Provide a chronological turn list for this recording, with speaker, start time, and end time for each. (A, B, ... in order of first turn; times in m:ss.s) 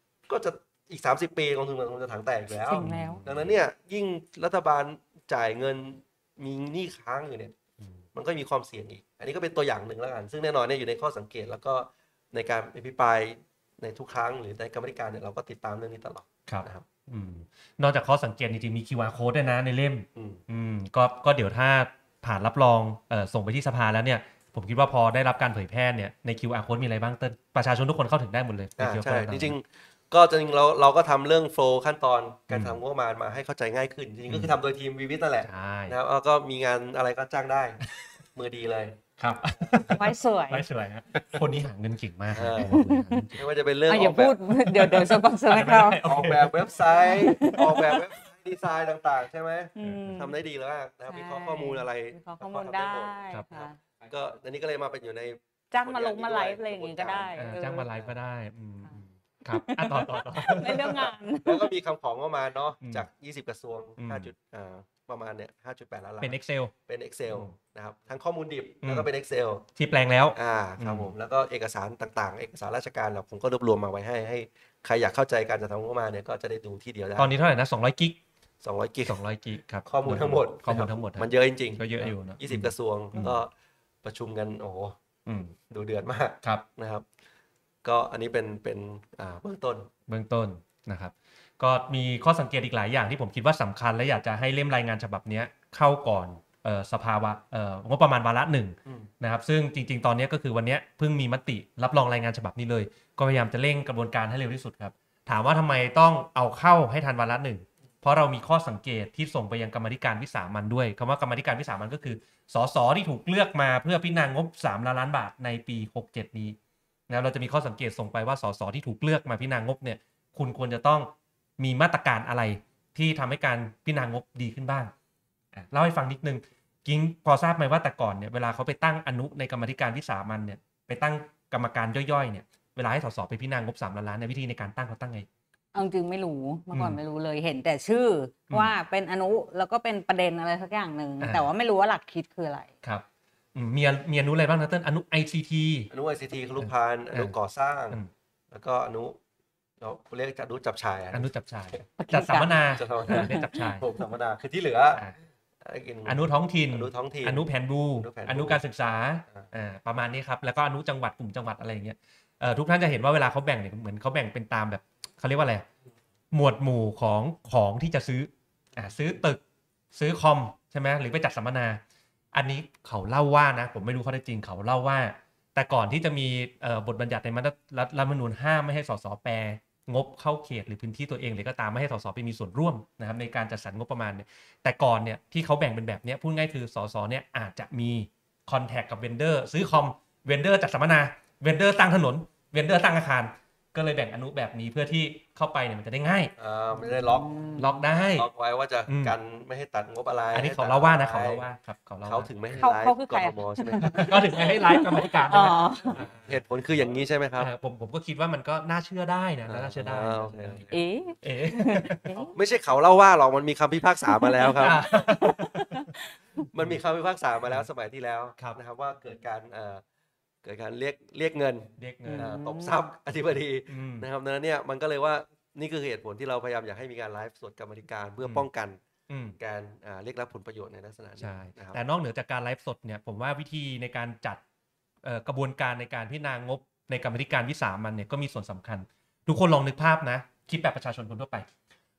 0:00.3-0:07.6 A
0:02.6-0:03.2 B
0:02.8-0:03.5 C
0:08.1-0:16.8 A
0:16.5-0:29.6 C
0:20.2-0:20.4 A
0:28.8-0:39.0 A
0:32.5-0:32.8 C
0:34.3-0:34.5 C
0:35.4-0:36.0 C
0:39.2-0:43.5 C
0:39.6-0:40.0 A
0:39.9-0:40.7 B
0:42.3-0:42.8 A
0:42.5-0:43.3 B
0:43.3-0:44.4 A
0:43.9-0:46.1 B
0:44.7-0:47.5 C
0:46.0-0:57.4 A
0:46.8-0:48.1 B
0:49.8-0:50.4 B
0:49.8-0:50.2 C
0:51.1-0:53.8 B
0:55.7-0:57.9 B
0:57.4-1:01.1 C
0:59.5-1:01.7 B
1:01.4-1:09.7 A
1:02.8-1:03.1 C
1:04.0-1:04.3 C
1:06.2-1:06.7 C
1:07.3-1:07.6 C
1:08.8-1:09.1 C
1:09.8-1:11.1 C
1:10.4-1:17.3 A
1:17.2-1:18.2 C
1:18.6-1:19.2 A
1:19.1-1:23.4 C
1:19.8-1:23.5 A
1:24.0-1:25.0 A
1:25.3-1:25.5 C
1:25.7-1:27.1 A
1:27.8-1:29.9 A
1:30.1-1:56.6 C
1:57.1-2:04.9 C
2:05.5-2:15.3 C
2:15.7-2:22.7 B
2:16.7-2:17.0 C
2:21.2-2:21.5 C
2:22.8-2:25.9 C
2:25.9-2:28.0 A
2:26.6-2:27.4 C
2:28.5-2:29.2 A
2:29.8-2:31.8 A
2:31.1-2:33.8 C
2:32.0-2:33.8 B
2:32.7-2:35.0 A
2:35.6-2:38.6 A
2:36.1-2:45.7 C
2:46.3-2:49.4 C
2:49.9-2:51.8 C
2:52.3-3:16.3 C
3:16.4-3:17.3 A
3:16.8-3:17.8 B
3:17.6-3:18.3 C
3:18.1-3:21.5 A
3:18.9-3:19.2 C
3:20.3-3:22.6 C
3:22.0-3:24.2 A
3:22.6-3:26.1 B
3:23.8-3:26.1 C
3:26.0-3:27.5 A
3:27.4-3:30.7 C
3:29.5-3:30.8 A
3:30.7-3:32.3 B
3:31.2-3:32.1 C
3:32.3-3:35.0 A
3:34.0-3:36.2 B
3:34.6-3:35.9 C
3:36.5-3:39.8 A
3:40.4-3:48.8 A
3:41.8-3:42.3 C
3:42.0-3:42.9 B
3:43.7-3:44.1 C
3:48.2-3:48.5 C
3:49.1-3:49.4 C
3:49.4-3:51.8 A
3:51.2-3:54.4 C
3:55.0-4:01.5 C